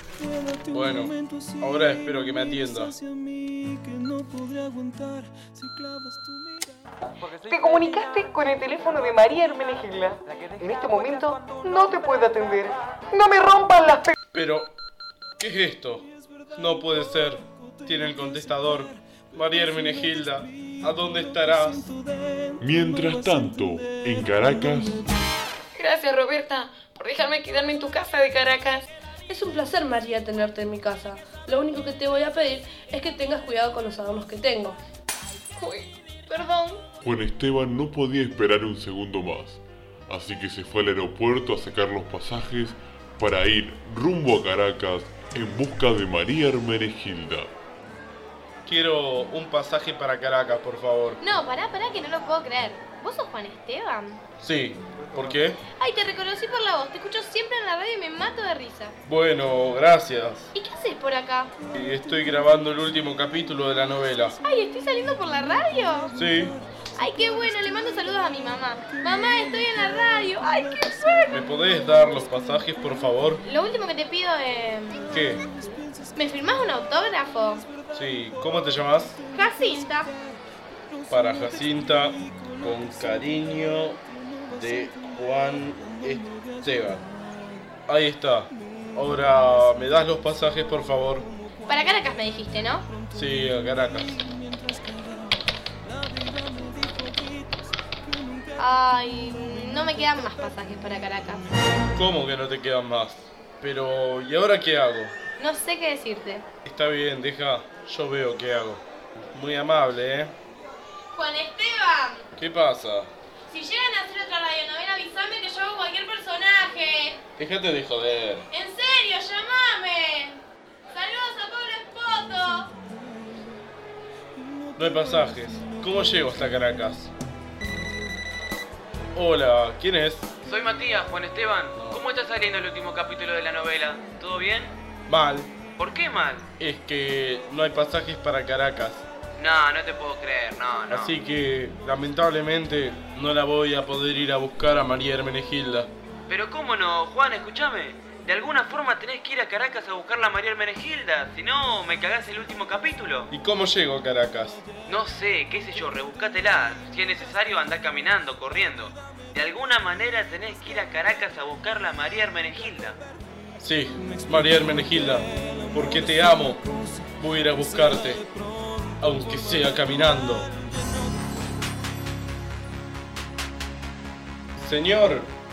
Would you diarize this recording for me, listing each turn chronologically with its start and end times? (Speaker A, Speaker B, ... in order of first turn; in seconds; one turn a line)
Speaker A: 0.7-3.0
Speaker B: 7.4-14.1
Speaker A: 14.3-14.7
Speaker A: 15.4-21.9
Speaker C: 22.6-25.0
Speaker D: 25.7-28.8
Speaker E: 29.3-34.8
Speaker D: 35.6-36.8
Speaker C: 37.0-47.5
Speaker A: 48.6-51.2
Speaker F: 51.2-54.2
Speaker A: 54.4-55.6
Speaker F: 55.8-58.9
Speaker A: 59.0-60.5
Speaker F: 60.5-61.5
Speaker A: 61.7-64.4
Speaker F: 64.4-66.1
Speaker A: 66.1-66.6
Speaker F: 67.0-71.3
Speaker A: 71.3-73.4
Speaker F: 73.4-75.0
Speaker A: 75.1-75.4
Speaker F: 75.6-77.7
Speaker A: 77.9-79.2
Speaker F: 79.3-80.1
Speaker A: 81.1-87.0
Speaker A: 87.9-91.3
Speaker F: 91.7-92.9
Speaker A: 93.1-94.2
Speaker F: 98.6-101.4
Speaker A: 101.9-105.2
Speaker F: 105.4-106.4
Speaker A: 106.6-110.3
Speaker F: 111.1-112.2
Speaker A: 112.4-113.1
Speaker F: 113.5-117.2
Speaker A: 117.4-118.5
Speaker F: 118.5-122.7
Speaker A: 124.8-127.1
Speaker A: 129.1-130.3
Speaker G: 130.4-134.7
Speaker A: 131.8-132.0
Speaker A: 135.1-135.5
Speaker G: 135.8-136.5
Speaker A: 136.6-139.1
Speaker G: 139.4-141.1
Speaker A: 140.9-145.9
Speaker G: 146.3-153.3
Speaker A: 153.3-154.6
Speaker G: 154.9-163.0
Speaker A: 163.6-166.6
Speaker A: 167.2-168.2
Speaker A: 169.0-170.5
Speaker A: 174.6-175.3